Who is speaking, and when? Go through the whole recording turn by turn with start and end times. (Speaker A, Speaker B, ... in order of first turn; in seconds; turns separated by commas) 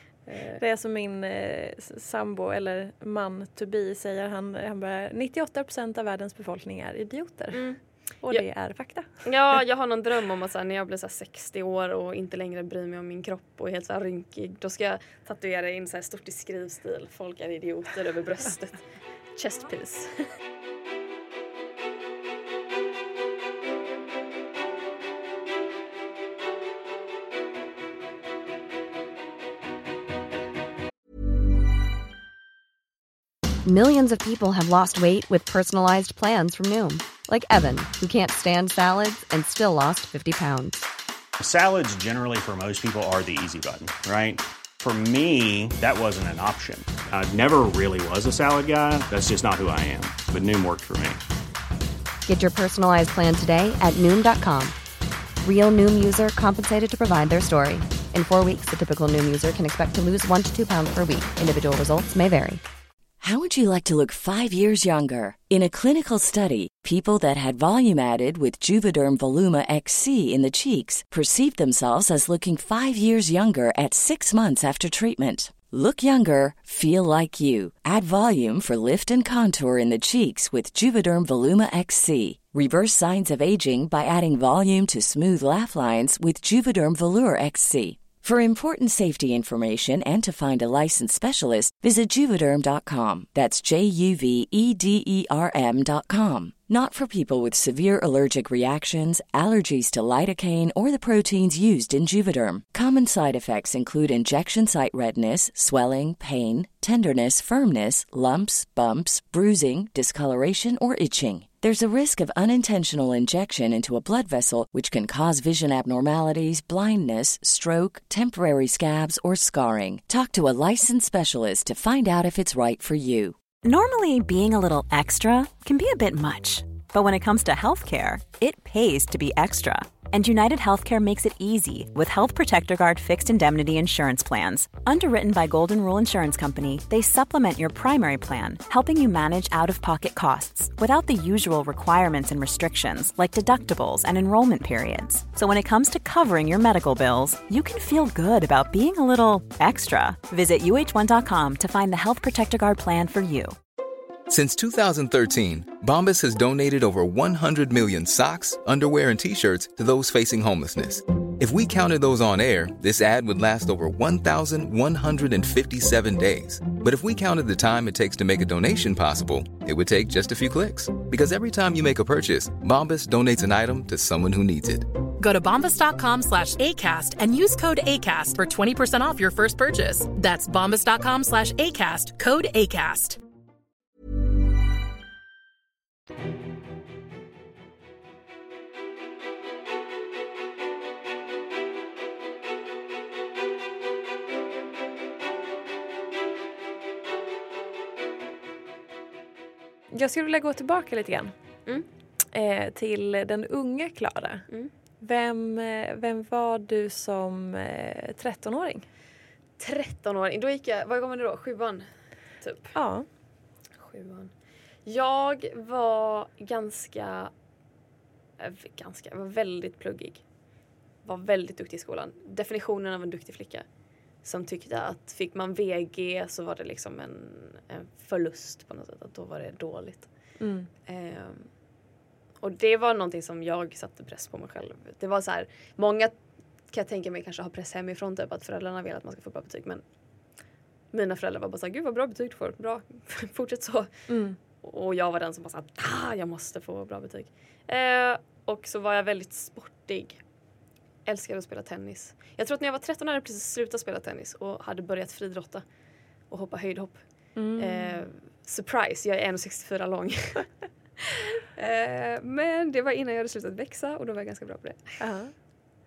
Speaker A: 0.3-0.6, Speaker B: 0.6-7.6, Speaker A: 7.5-8.4, Speaker B: 8.2-9.1, Speaker A: 9.2-18.8, Speaker A: 19.4-20.3, Speaker C: 33.6-40.9, Speaker D: 41.4-51.2, Speaker C: 52.3-54.8, Speaker C: 55.4-62.6, Speaker E: 63.2-123.4, Speaker F: 123.6-153.6, Speaker G: 154.3-175.0, Speaker H: 175.2-183.2, Speaker B: 199.9-201.3, Speaker B: 202.3-204.5, Speaker B: 205.0-208.9, Speaker A: 209.6-211.9, Speaker A: 212.4-212.8, Speaker B: 212.8-213.1, Speaker A: 213.8-214.3, Speaker A: 214.8-217.3, Speaker A: 218.4-220.2, Speaker A: 221.0-223.7, Speaker A: 224.2-230.1, Speaker B: 230.4-230.7, Speaker A: 230.9-231.5, Speaker A: 232.4-236.2, Speaker A: 236.7-239.8, Speaker A: 240.9-243.9, Speaker B: 244.1-244.4, Speaker A: 244.6-250.2, Speaker A: 251.1-255.6, Speaker A: 256.3-257.0, Speaker B: 257.4-258.0, Speaker A: 257.6-260.5, Speaker A: 261.0-264.8, Speaker B: 265.0-265.3